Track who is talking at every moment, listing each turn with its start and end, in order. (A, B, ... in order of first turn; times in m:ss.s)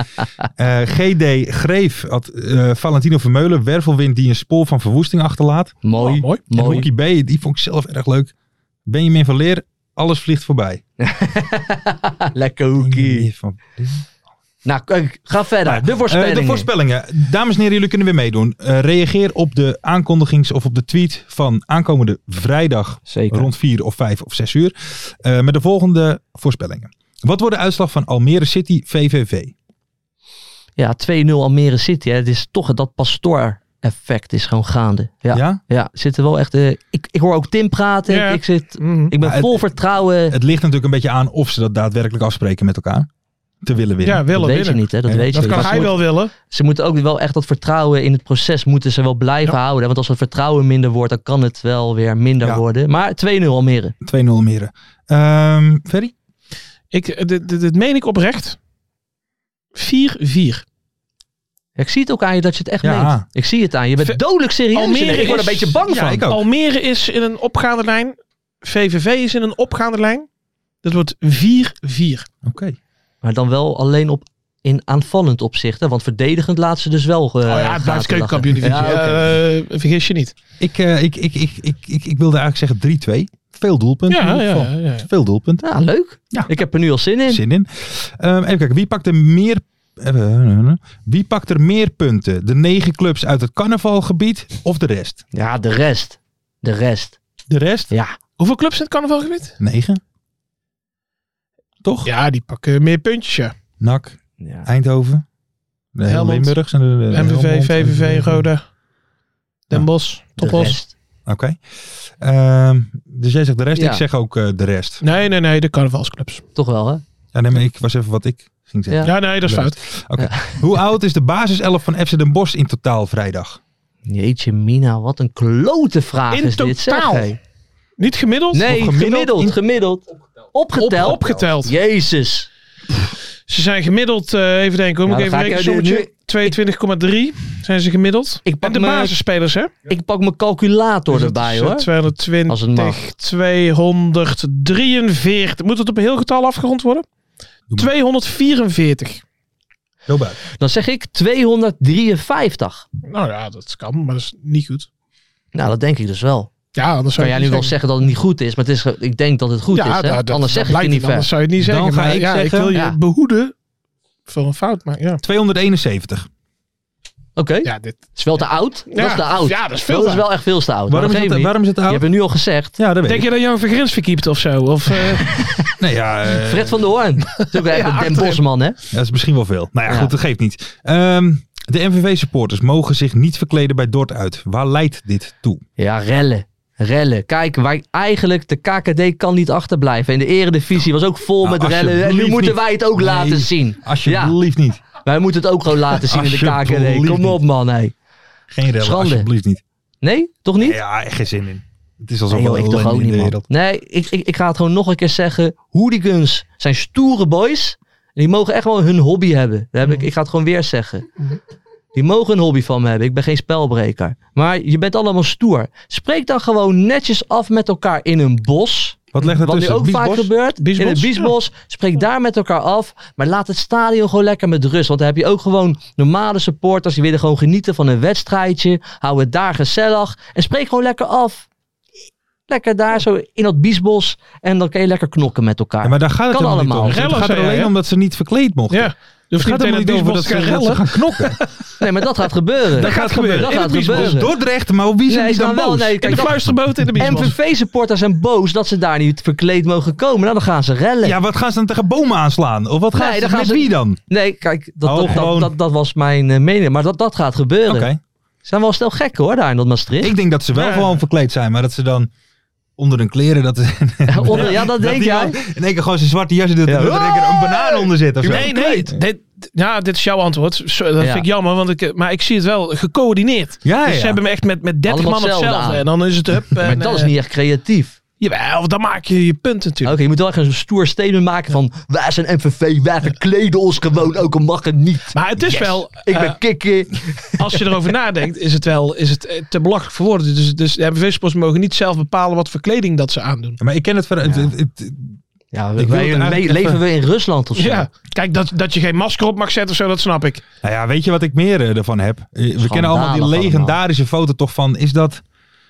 0:00.6-0:05.8 A
0:05.8-0:06.9 B
0:06.0-0:06.4 C
0:06.5-0:08.3 A
0:08.9-0:10.8 A
0:11.0-0:13.3 B
0:12.8-0:14.1 A
0:14.6-0:16.7 B
0:15.6-0:29.5 A
0:23.1-0:23.5 B
0:30.8-0:40.4 B
0:35.3-0:35.6 A
0:38.1-0:39.1 C
0:39.2-0:39.7 A
0:40.3-0:43.1 A
0:43.6-0:44.3 A
0:44.0-0:46.3 C
0:44.3-0:54.0 B
0:45.1-0:46.0 A
0:54.0-0:56.1 A
0:56.9-0:58.6 C
0:59.8-1:00.6 C
1:01.8-1:06.3 B
1:02.8-1:03.2 A
1:04.7-1:10.3 C
1:05.8-1:06.4 A
1:10.8-1:12.3 C
1:12.4-1:12.8 A
1:13.2-1:19.3 B
1:17.5-1:20.3 C
1:20.6-1:25.6 A
1:24.1-1:25.1 C
1:25.6-1:27.4 B
1:26.3-1:26.6 A
1:27.3-1:35.2 A
1:35.3-1:37.2 B
1:37.5-1:37.9 A
1:37.9-1:38.2 B
1:38.4-1:39.6 C
1:39.6-1:40.0 A
1:41.8-1:42.1 A
1:42.0-1:43.5 C
1:43.8-1:45.2 A
1:44.4-1:44.7 B
1:46.0-1:48.5 A
1:46.1-1:48.6 C
1:49.7-1:50.8 C
1:50.4-1:50.9 B
1:51.3-1:55.0 A
1:53.8-1:54.0 B
1:55.0-1:56.4 C
1:56.6-1:57.0 B
1:57.3-2:03.6 A
1:59.0-1:59.8 C
2:00.2-2:00.6 B
2:04.1-2:07.4 B
2:06.3-2:07.3 C
2:08.0-2:08.6 C
2:08.5-2:12.5 B
2:08.5-2:09.6 A
2:10.8-2:11.7 C
2:13.5-2:19.7 C
2:15.1-2:16.6 B
2:18.4-2:19.2 B
2:19.9-2:21.9 B
2:21.1-2:27.1 C
2:22.5-2:23.0 B
2:27.8-2:29.2 C
2:30.1-2:30.4 A
2:30.6-2:32.8 B
2:33.0-2:34.9 C
2:35.5-2:36.5 B
2:36.8-2:37.8 C
2:37.2-2:41.3 B
2:39.7-2:43.5 C
2:41.6-2:42.7 A
2:44.3-2:45.2 C
2:45.2-2:46.3 A
2:47.4-2:52.8 B
2:47.6-2:48.2 C
2:48.9-2:50.3 C
2:50.9-2:52.1 A
2:52.8-2:53.3 A
2:53.1-2:55.4 C
2:55.4-2:55.7 B
2:55.8-2:56.9 A
2:56.4-2:58.8 B
2:57.5-2:58.4 C
2:58.9-3:05.6 A
2:59.9-3:00.1 B
3:05.8-3:14.4 B
3:11.4-3:14.8 A
3:15.0-3:17.9 B
3:15.9-3:17.4 A
3:18.5-3:19.6 A
3:18.8-3:19.3 B
3:20.0-3:20.8 B
3:20.6-3:23.4 A
3:22.3-3:31.1 B
3:32.0-3:51.5 B
3:39.1-3:40.3 A
3:40.6-3:41.4 C
3:52.5-3:57.1 B
3:55.8-4:01.4 A
3:56.9-3:57.7 C
3:58.7-4:01.4 C
4:01.8-4:04.3 B
4:02.8-4:04.3 C
4:02.8-4:06.2 A
4:05.1-4:06.4 B
4:06.0-4:07.4 C
4:07.0-4:11.2 B
4:07.0-4:07.3 A
4:11.0-4:14.0 A
4:12.9-4:17.9 B
4:14.8-4:15.5 A
4:17.7-4:18.0 A
4:18.4-4:20.2 B
4:20.0-4:22.1 A
4:20.5-4:21.0 C
4:22.8-4:29.0 A
4:24.1-4:25.4 B
4:26.7-4:27.7 B
4:28.2-4:37.1 C
4:28.3-4:28.5 B
4:31.0-4:31.3 B
4:33.6-4:34.2 A
4:34.9-4:35.8 B
4:36.6-4:38.0 B
4:38.2-4:40.0 C
4:39.8-4:47.6 B
4:45.1-4:46.4 C
4:47.4-4:53.6 C
4:53.6-4:55.2 A
4:54.2-4:54.5 B
4:55.5-4:57.9 B
4:55.8-4:56.8 A
4:57.6-5:00.4 C
5:00.6-5:05.2 A
5:02.6-5:03.8 B